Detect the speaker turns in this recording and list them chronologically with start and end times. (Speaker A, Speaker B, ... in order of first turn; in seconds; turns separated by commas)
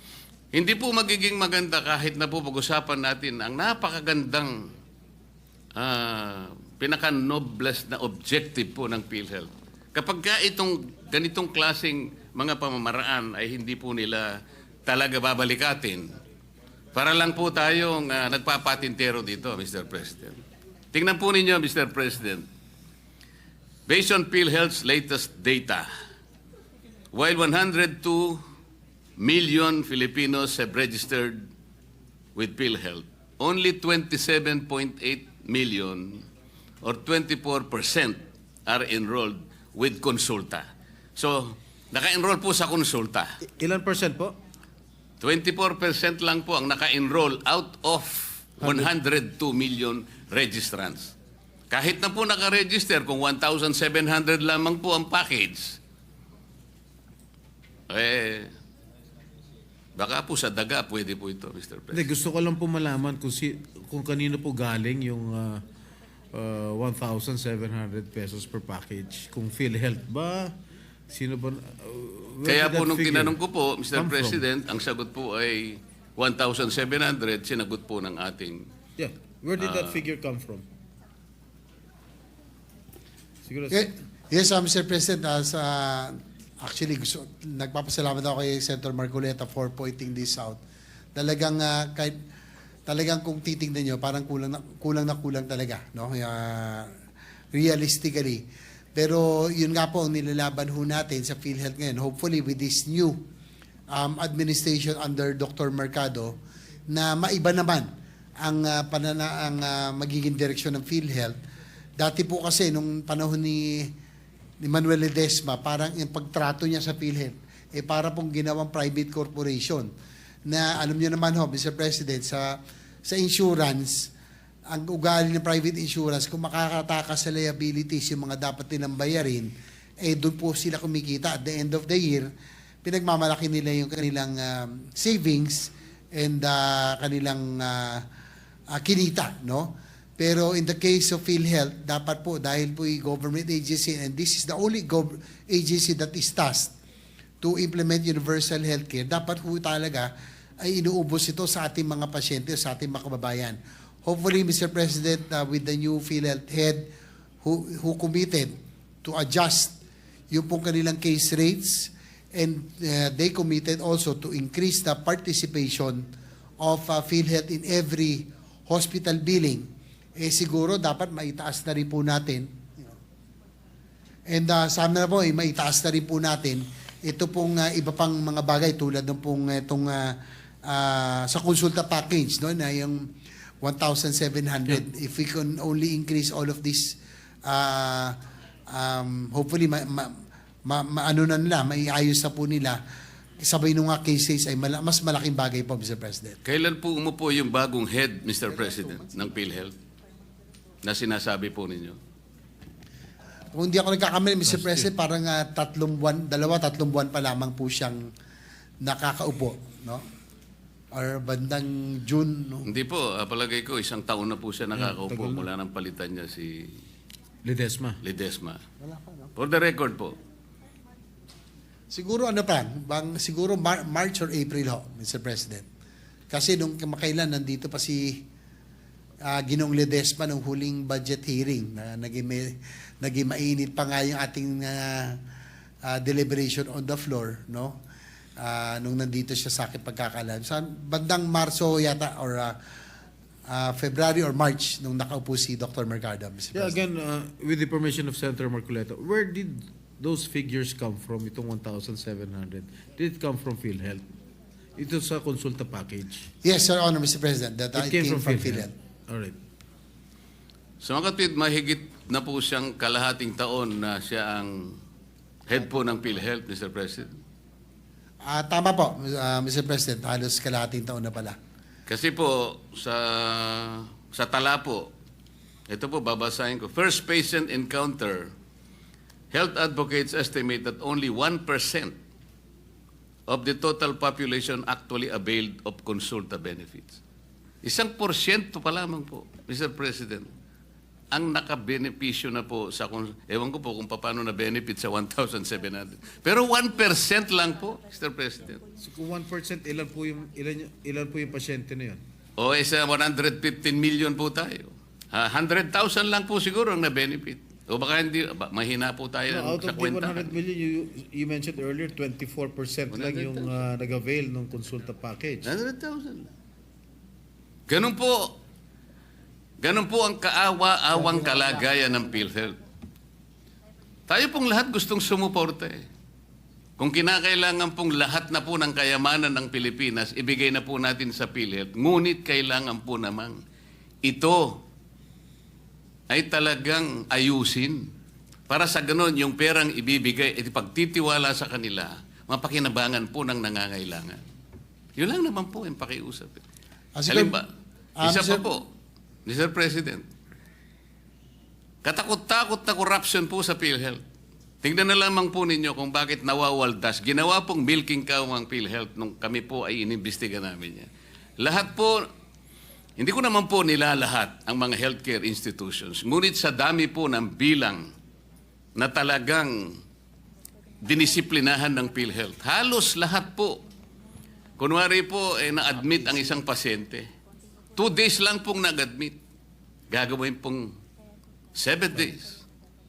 Speaker A: 0.5-4.7, Speaker A: 5.8-16.2, Speaker A: 16.9-20.4, Speaker A: 20.9-22.5, Speaker A: 23.9-25.9, Speaker A: 27.1-28.4, Speaker A: 29.2-31.5, Speaker A: 32.3-36.3, Speaker A: 36.8-43.4, Speaker B: 43.4-44.4, Speaker A: 45.2-51.1, Speaker B: 48.6-48.9, Speaker A: 51.7-55.8, Speaker A: 57.9-58.5, Speaker A: 60.0-62.1, Speaker B: 61.9-65.6, Speaker B: 66.3-70.5, Speaker B: 71.1-73.4, Speaker A: 72.4-78.7, Speaker B: 73.9-74.4, Speaker B: 79.0-80.7, Speaker A: 79.6-80.0, Speaker B: 83.4-83.9, Speaker C: 83.7-90.6, Speaker C: 91.1-92.2, Speaker C: 92.9-96.9, Speaker C: 97.5-98.4, Speaker C: 98.9-103.2, Speaker C: 103.9-106.4, Speaker C: 106.9-111.4, Speaker C: 112.0-113.9, Speaker C: 114.6-119.9, Speaker C: 120.5-124.1, Speaker C: 124.7-132.3, Speaker C: 132.8-138.0, Speaker C: 138.7-146.7, Speaker C: 147.4-150.1, Speaker C: 150.6-156.8, Speaker C: 157.4-159.8, Speaker C: 160.3-166.1, Speaker C: 166.6-172.9, Speaker C: 174.3-183.0, Speaker C: 183.6-188.2, Speaker C: 188.7-192.8, Speaker C: 193.4-196.4, Speaker A: 196.4-199.7, Speaker C: 198.5-199.3, Speaker A: 200.8-202.0, Speaker C: 203.5-208.1, Speaker B: 204.4-204.9, Speaker C: 208.8-210.0, Speaker C: 210.9-212.7, Speaker A: 212.7-216.8, Speaker B: 214.7-215.5, Speaker B: 217.4-218.0, Speaker A: 218.0-218.6, Speaker C: 218.8-219.3, Speaker A: 219.3-220.2, Speaker C: 221.9-225.7, Speaker C: 226.3-228.2, Speaker C: 229.3-235.2, Speaker C: 235.8-237.8, Speaker C: 238.4-242.6, Speaker C: 243.5-246.8, Speaker B: 246.5-254.1, Speaker B: 254.8-256.3, Speaker C: 256.4-258.7, Speaker B: 257.8-259.4, Speaker A: 260.8-264.8, Speaker A: 265.5-267.1, Speaker C: 268.2-271.4, Speaker A: 271.9-274.9, Speaker A: 275.7-278.3, Speaker A: 279.3-282.0, Speaker A: 283.3-287.0, Speaker A: 287.6-290.3, Speaker A: 291.1-298.6, Speaker B: 298.8-302.0, Speaker A: 302.4-310.3, Speaker B: 309.3-315.5, Speaker A: 312.9-313.5, Speaker A: 315.4-316.3, Speaker A: 317.7-318.4, Speaker A: 319.6-322.6, Speaker C: 320.9-321.7, Speaker A: 324.1-325.9, Speaker A: 326.8-333.4, Speaker A: 334.0-334.6, Speaker A: 336.1-337.9, Speaker A: 338.5-344.2, Speaker A: 345.0-346.4, Speaker C: 346.9-347.4, Speaker A: 347.1-347.5, Speaker C: 348.0-348.4, Speaker A: 348.0-348.7, Speaker A: 349.2-350.1, Speaker A: 351.8-354.0, Speaker A: 354.6-362.0, Speaker A: 363.0-367.9, Speaker A: 368.8-369.8, Speaker A: 370.8-373.6, Speaker A: 374.6-377.1, Speaker A: 377.8-379.2, Speaker A: 379.9-380.7, Speaker A: 381.5-382.4